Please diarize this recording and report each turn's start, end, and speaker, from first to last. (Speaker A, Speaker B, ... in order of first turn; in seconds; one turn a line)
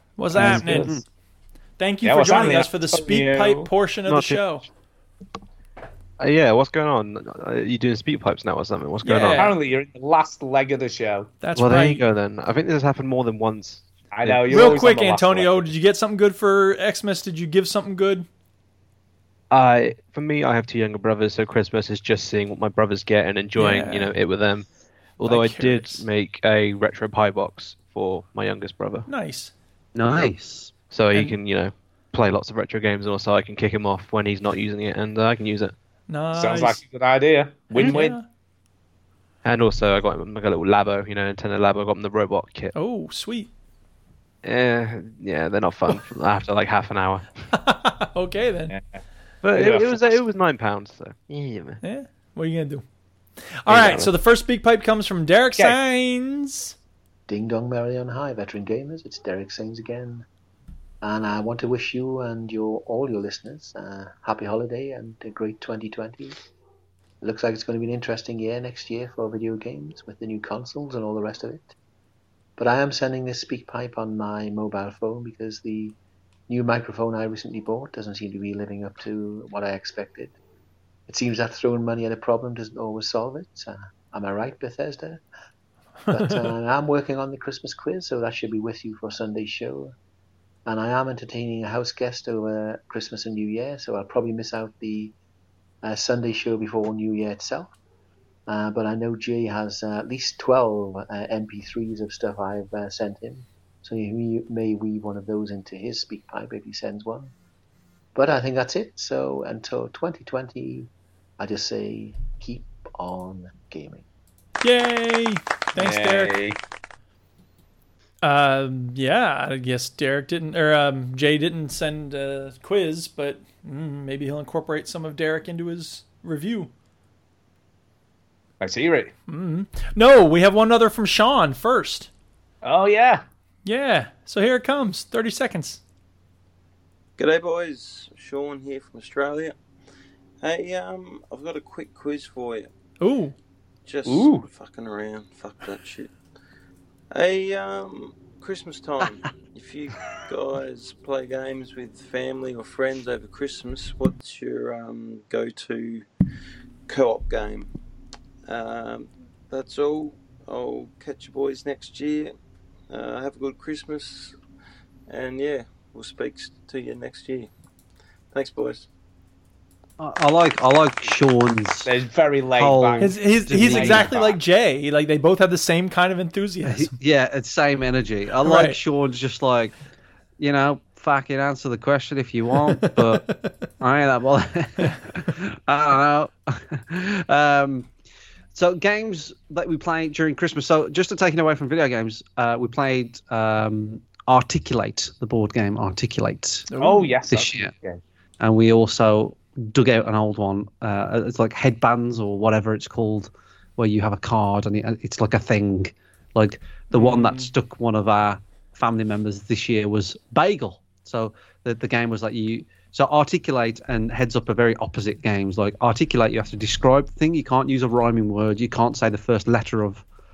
Speaker A: 0.2-0.9
Speaker B: 0.3-1.0
Speaker C: 0.4-0.9
Speaker A: 1.8-4.7
Speaker C: 2.0-3.7
Speaker D: 4.0-4.5
Speaker D: 6.2-9.4
Speaker A: 9.0-9.6
Speaker C: 9.3-11.3
Speaker A: 11.4-12.0
Speaker D: 11.6-14.4
Speaker C: 14.1-15.7
Speaker A: 14.5-18.2
Speaker D: 19.5-24.6
Speaker A: 23.6-24.1
Speaker D: 25.2-29.1
Speaker A: 25.2-26.0
Speaker A: 29.1-29.5
Speaker B: 29.9-30.7
Speaker D: 30.9-35.7
Speaker A: 36.1-36.8
Speaker C: 36.3-38.2
Speaker A: 37.8-38.2
Speaker D: 39.4-42.7
Speaker A: 42.7-43.5
Speaker D: 44.4-47.3
Speaker A: 47.5-48.7
Speaker C: 48.7-49.0
Speaker D: 49.4-51.8
Speaker C: 49.5-50.2
Speaker A: 51.8-52.8
Speaker A: 53.6-56.7
Speaker D: 53.7-54.1
Speaker E: 57.3-60.2
Speaker E: 61.0-66.4
Speaker E: 67.2-71.7
Speaker E: 72.6-76.0
Speaker E: 76.5-80.3
Speaker E: 81.1-85.2
Speaker E: 86.1-89.9
Speaker E: 90.7-95.1
Speaker E: 95.8-97.7
Speaker E: 98.5-107.3
Speaker E: 108.1-114.0
Speaker A: 114.6-116.3
Speaker C: 115.8-116.6
Speaker A: 118.2-126.7
Speaker C: 128.6-129.1
Speaker A: 129.3-132.1
Speaker C: 132.6-133.2
Speaker A: 133.6-135.8
Speaker F: 137.2-139.5
Speaker F: 140.4-142.7
Speaker A: 143.0-143.3
Speaker F: 143.8-146.1
Speaker C: 144.0-144.5
Speaker F: 147.1-156.0
Speaker F: 156.9-157.7
Speaker F: 158.4-162.3
Speaker F: 162.9-164.3
Speaker F: 165.1-167.5
Speaker F: 168.3-168.9
Speaker B: 170.0-171.9
Speaker C: 171.8-174.4
Speaker B: 172.6-174.1
Speaker A: 173.0-176.9
Speaker B: 176.6-179.7
Speaker A: 178.4-178.8
Speaker B: 180.4-183.3
Speaker A: 182.7-183.5
Speaker B: 183.8-187.9
Speaker B: 188.5-196.7
Speaker A: 196.7-197.1
Speaker C: 196.8-198.0
Speaker B: 197.3-197.7
Speaker B: 198.4-220.0
Speaker A: 206.9-207.5